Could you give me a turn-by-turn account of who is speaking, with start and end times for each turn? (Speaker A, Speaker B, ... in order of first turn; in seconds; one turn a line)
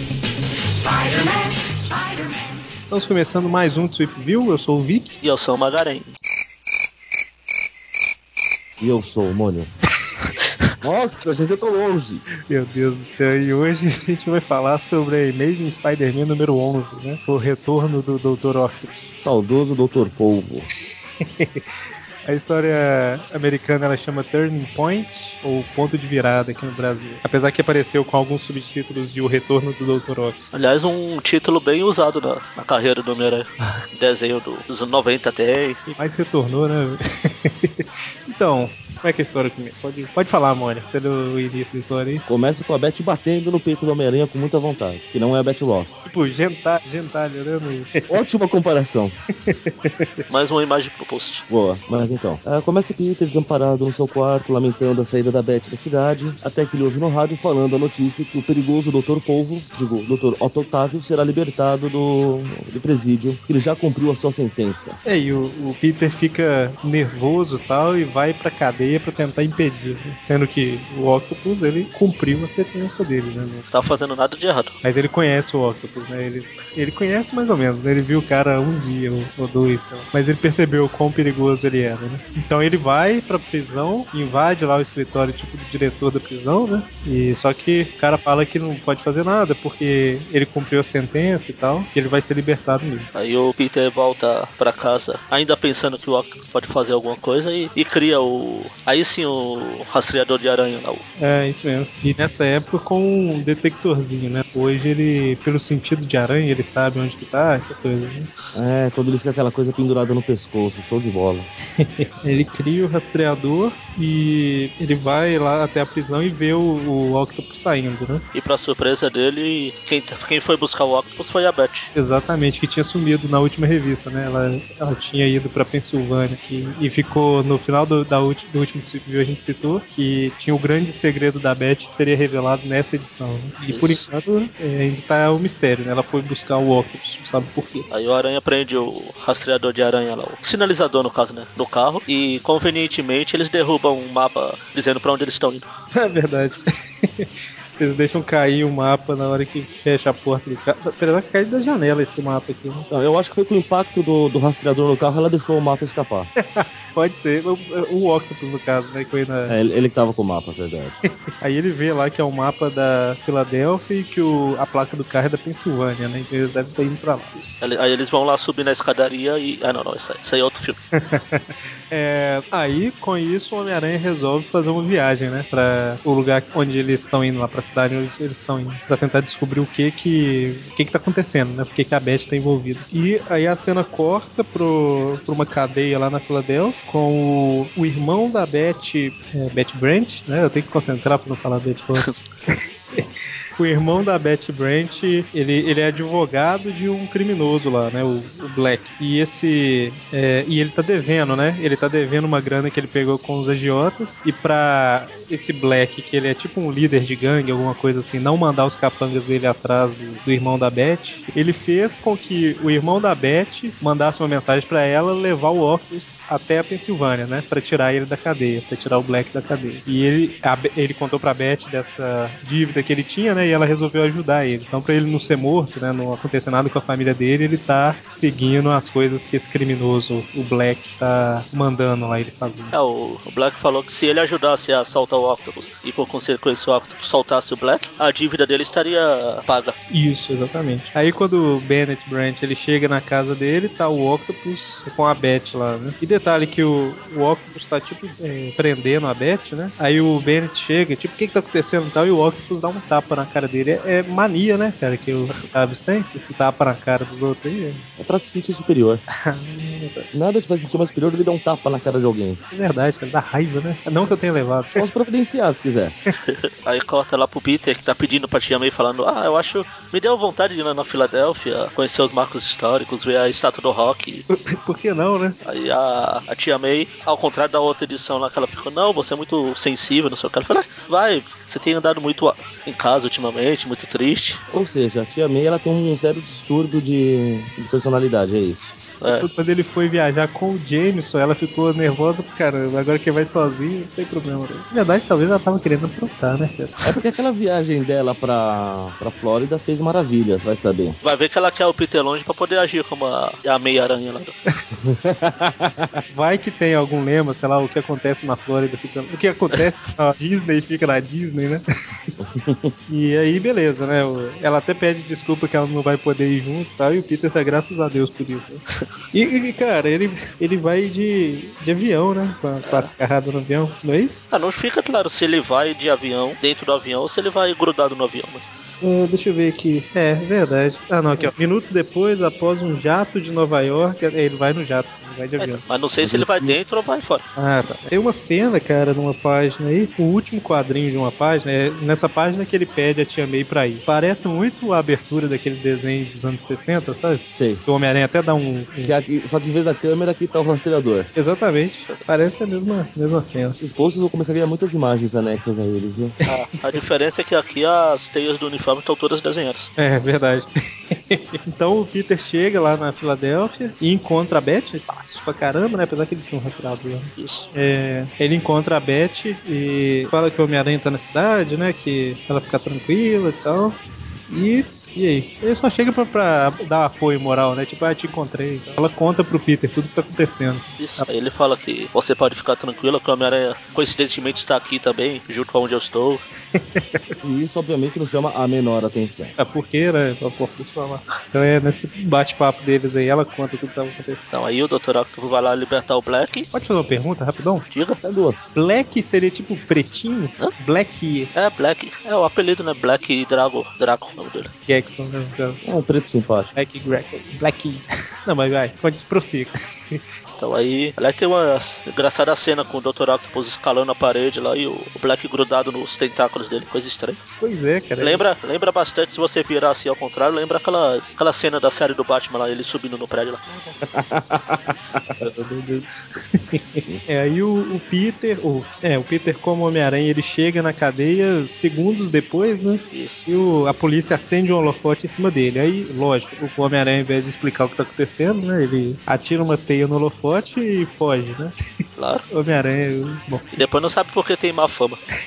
Speaker A: 2.9-5.2
Speaker B: 5.2-6.1
Speaker C: 8.8-9.7
Speaker C: 10.8-12.2
Speaker A: 12.5-19.1
Speaker C: 19.1-20.7
Speaker A: 21.2-21.6
Speaker A: 22.2-30.5
Speaker B: 30.5-35.8
Speaker A: 35.9-42.2
Speaker C: 42.3-46.0
Speaker A: 46.0-48.1
Speaker C: 48.1-49.1
Speaker A: 49.5-50.1
Speaker B: 50.3-51.4
Speaker C: 51.5-65.0
Speaker A: 65.0-73.7
Speaker B: 73.7-74.7
Speaker A: 74.8-93.1
Speaker B: 93.1-101.0
Speaker A: 101.2-108.3
Speaker C: 108.5-111.5
Speaker A: 111.8-118.2
Speaker B: 118.3-121.9
Speaker A: 121.9-137.9
Speaker B: 133.7-134.0
Speaker B: 137.9-145.6
Speaker A: 145.9-152.9
Speaker C: 152.9-156.3
Speaker A: 156.4-159.6
Speaker C: 159.5-161.0
Speaker A: 161.4-167.6
Speaker B: 167.6-170.8
Speaker A: 170.9-193.0
Speaker A: 193.6-232.8
Speaker B: 232.7-239.7
Speaker A: 239.9-257.8
Speaker C: 258.0-259.0
Speaker A: 259.2-260.1
Speaker C: 260.1-262.4
Speaker A: 262.4-264.9
Speaker C: 264.8-266.0
Speaker B: 266.2-274.2
Speaker A: 274.3-275.4
Speaker B: 275.4-284.4
Speaker C: 284.5-288.8
Speaker B: 289.0-289.3
Speaker A: 289.1-296.8
Speaker C: 296.8-301.0
Speaker B: 301.0-304.3
Speaker C: 304.8-306.0
Speaker A: 306.1-311.6
Speaker C: 312.2-312.7
Speaker A: 312.9-324.3
Speaker B: 322.6-322.9
Speaker B: 324.3-328.5
Speaker A: 328.8-335.6
Speaker B: 335.4-337.2
Speaker C: 336.0-336.6
Speaker A: 337.4-348.9
Speaker C: 347.3-347.6
Speaker C: 348.8-351.1
Speaker A: 351.1-353.6
Speaker C: 353.6-356.1
Speaker B: 356.3-359.7
Speaker A: 359.8-373.8
Speaker B: 367.2-367.5
Speaker A: 374.3-381.1
Speaker B: 380.8-386.2
Speaker A: 386.5-387.0
Speaker C: 387.2-389.3
Speaker A: 389.4-394.3
Speaker B: 394.3-396.5
Speaker A: 396.5-397.7
Speaker B: 397.7-398.0
Speaker C: 398.0-398.5
Speaker A: 398.5-401.3
Speaker B: 401.3-404.5
Speaker A: 404.5-405.6
Speaker C: 405.6-406.5
Speaker A: 406.5-410.0
Speaker B: 410.4-417.2
Speaker A: 417.4-418.2
Speaker B: 418.0-423.4
Speaker C: 423.8-425.3
Speaker A: 425.1-441.5
Speaker B: 432.9-433.2
Speaker B: 442.0-442.2
Speaker A: 442.3-443.6
Speaker B: 443.5-445.0